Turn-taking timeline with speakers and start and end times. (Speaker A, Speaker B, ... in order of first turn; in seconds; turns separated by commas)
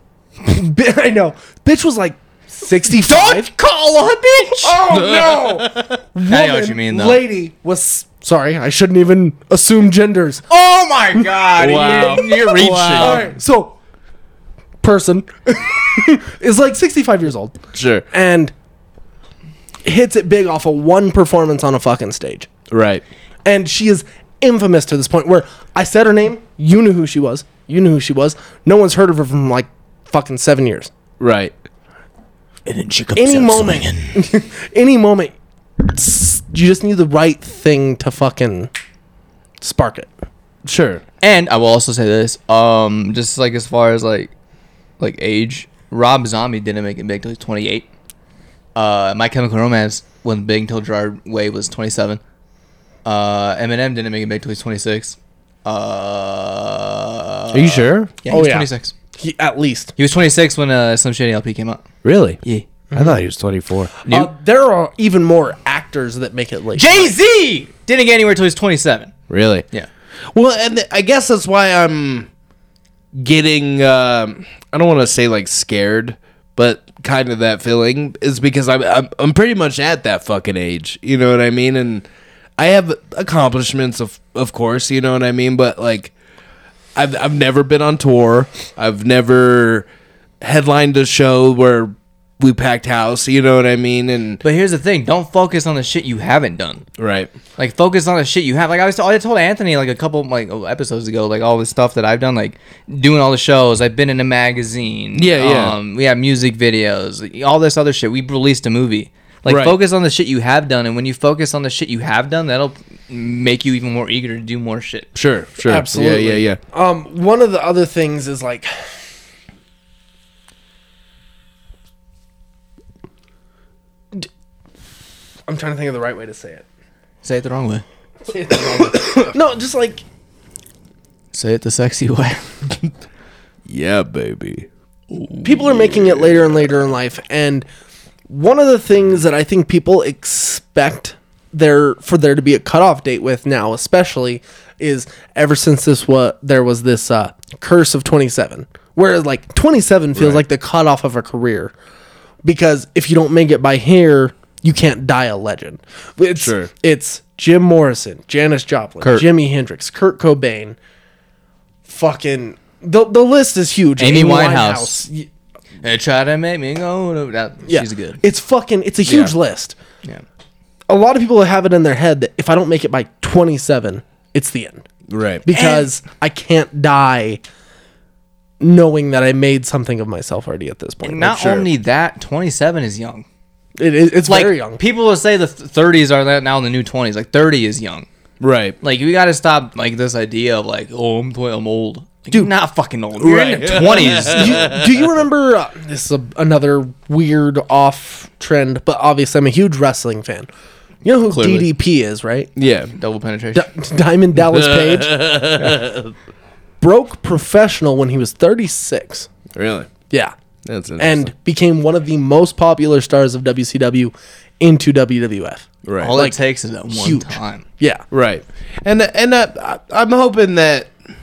Speaker A: 0.4-3.5, Speaker B: 2.9-4.8, Speaker A: 4.6-10.5, Speaker C: 4.9-6.0, Speaker B: 6.2-7.2, Speaker B: 10.5-13.2, Speaker A: 11.2-12.2, Speaker C: 11.6-13.3, Speaker A: 12.9-13.8, Speaker A: 14.8-17.6, Speaker C: 17.7-18.1, Speaker A: 18.1-18.5, Speaker A: 19.8-22.5, Speaker C: 22.7-23.0, Speaker A: 23.4-30.9, Speaker C: 31.2-31.5, Speaker B: 32.6-34.1, Speaker A: 33.1-38.7, Speaker A: 39.6-40.1, Speaker C: 40.6-41.0, Speaker B: 41.2-44.3, Speaker B: 45.0-47.9, Speaker B: 48.7-52.2, Speaker B: 53.0-58.9, Speaker C: 57.5-58.1, Speaker A: 58.3-59.9, Speaker B: 60.0-61.8, Speaker C: 62.0-62.4, Speaker A: 62.9-63.2, Speaker C: 62.9-63.9, Speaker A: 64.0-67.1, Speaker B: 64.1-64.3, Speaker B: 66.7-69.1, Speaker C: 69.3-69.7, Speaker C: 70.3-72.3, Speaker C: 73.1-82.1, Speaker C: 82.6-86.1, Speaker C: 86.9-89.9, Speaker C: 90.4-94.4, Speaker B: 94.4-96.8, Speaker C: 97.0-97.3, Speaker B: 97.6-115.1, Speaker C: 105.1-105.7, Speaker C: 109.5-109.8, Speaker C: 115.1-116.6, Speaker A: 115.6-118.9, Speaker A: 125.5-126.6, Speaker B: 127.2-127.8, Speaker A: 128.3-130.0, Speaker C: 128.9-129.3, Speaker B: 131.3-132.5, Speaker C: 133.7-134.7, Speaker B: 135.1-135.6, Speaker A: 135.4-137.6, Speaker C: 135.7-136.8, Speaker A: 138.3-151.7, Speaker C: 150.1-150.4, Speaker A: 152.4-160.8, Speaker C: 156.4-156.7, Speaker A: 161.9-165.3, Speaker B: 164.0-165.1, Speaker B: 165.8-168.2, Speaker A: 167.7-169.7, Speaker C: 169.1-169.3, Speaker A: 170.9-174.9, Speaker C: 175.1-175.4, Speaker A: 175.4-177.4, Speaker B: 175.5-175.9, Speaker A: 178.6-181.4, Speaker B: 181.0-183.2, Speaker C: 181.3-181.7, Speaker A: 183.8-184.8, Speaker B: 184.3-188.1, Speaker C: 188.4-188.8, Speaker B: 188.8-194.6, Speaker C: 193.2-195.1, Speaker A: 194.0-200.5, Speaker A: 201.0-202.5, Speaker B: 201.2-201.7, Speaker C: 202.6-202.9, Speaker B: 202.9-203.7, Speaker A: 203.5-205.7, Speaker C: 204.5-206.1, Speaker A: 206.8-209.3, Speaker C: 209.5-209.9, Speaker C: 210.6-211.3, Speaker A: 211.0-216.4, Speaker C: 215.8-216.1, Speaker B: 216.0-217.6, Speaker A: 216.9-218.0, Speaker C: 218.1-220.9